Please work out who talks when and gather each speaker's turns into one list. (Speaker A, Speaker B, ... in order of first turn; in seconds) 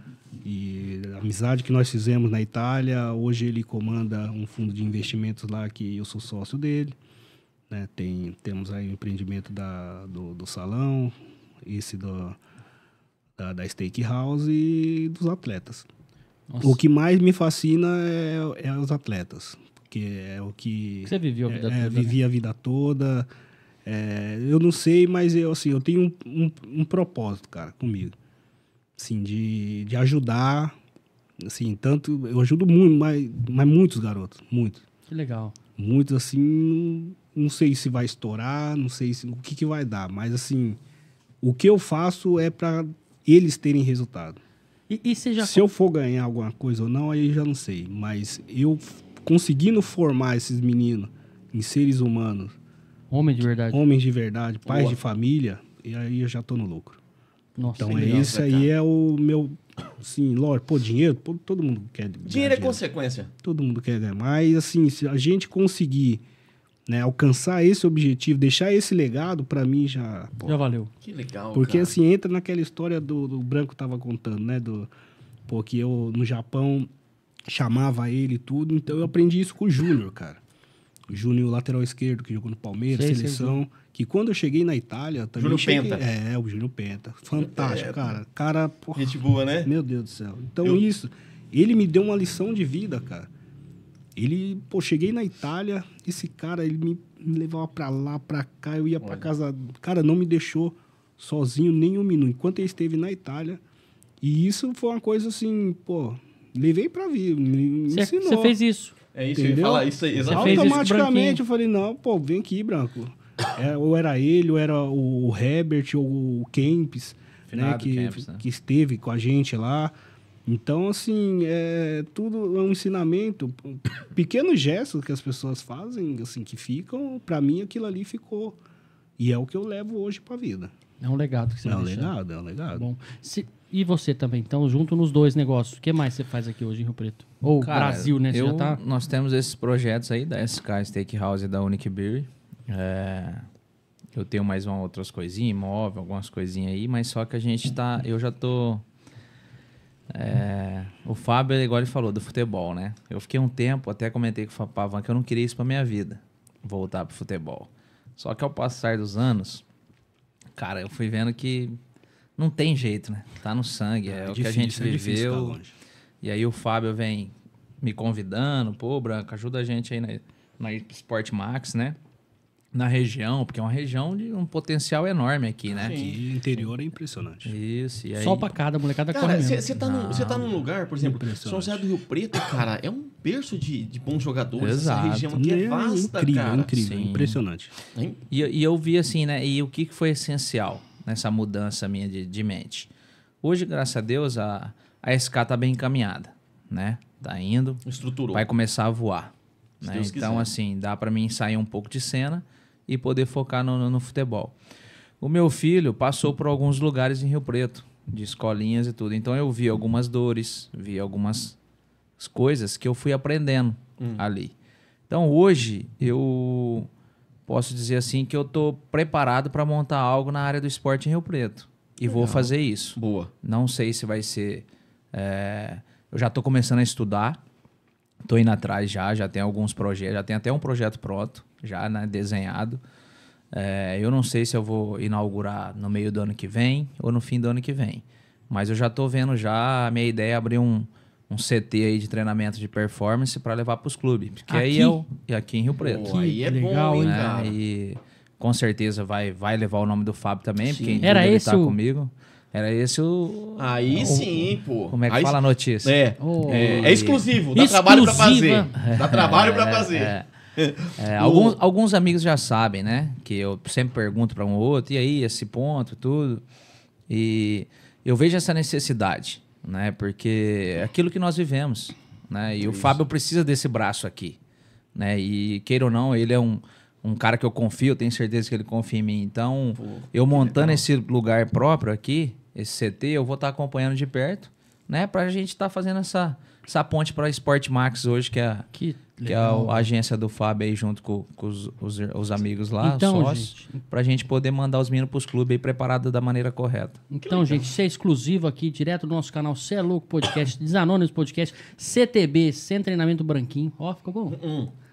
Speaker A: 0.4-7.0, 7.7-12.4, 13.4-15.9, 16.6-23.3, 23.9-28.1, 29.0-30.8, 31.4-34.8, 35.8-40.8, 41.4-44.4, 45.4-52.6, 53.7-57.0, 57.7-62.8, 63.4-66.2, 66.9-70.6, 71.5-74.9, 75.5-76.9, 77.5-80.4, 81.1-93.3, 94.2-103.6, 104.2-108.5, 109.3-119.9, 120.5-128.6, 129.2-130.7, 131.7-132.9, 164.1-165.7, 175.8-177.5, 181.0-181.8, 185.3-187.7
Speaker B: 16.5-16.8, 21.1-22.2, 35.1-35.5, 44.9-45.7, 53.1-53.8, 57.6-58.2, 70.5-70.9, 82.9-83.6, 107.9-108.9, 110.3-111.4, 131.0-132.1, 132.7-138.8, 178.2-179.6, 244.5-245.0, 246.1-247.2, 251.0-251.8, 256.2-256.9, 257.6-258.7, 288.7-289.9, 292.8-293.8, 297.1-304.4
Speaker C: 54.7-55.0, 57.8-58.7, 62.2-63.3, 71.0-71.9, 85.4-86.0, 87.4-88.0, 89.0-89.7, 99.0-99.3, 109.2-110.9, 175.7-176.2, 179.1-186.7, 197.8-198.4, 199.8-200.5, 222.1-223.3, 245.8-247.6, 250.6-251.1, 253.6-261.6, 272.6-273.0, 279.8-280.9, 297.2-297.7, 304.3-304.7
Speaker D: 117.5-118.4, 137.6-143.4, 144.1-148.8, 150.1-159.6, 160.6-161.8, 162.4-165.6, 166.2-172.0, 172.7-176.0, 177.4-178.5, 179.8-180.6, 184.6-185.3, 186.7-187.4, 188.3-192.9, 193.4-197.8, 198.3-204.6, 205.2-211.6, 212.2-214.5, 215.1-216.9, 217.5-227.4, 228.3-232.8, 233.5-246.2, 247.0-257.3, 258.8-260.3, 261.0-266.4, 267.1-274.4, 274.9-288.7, 289.2-297.0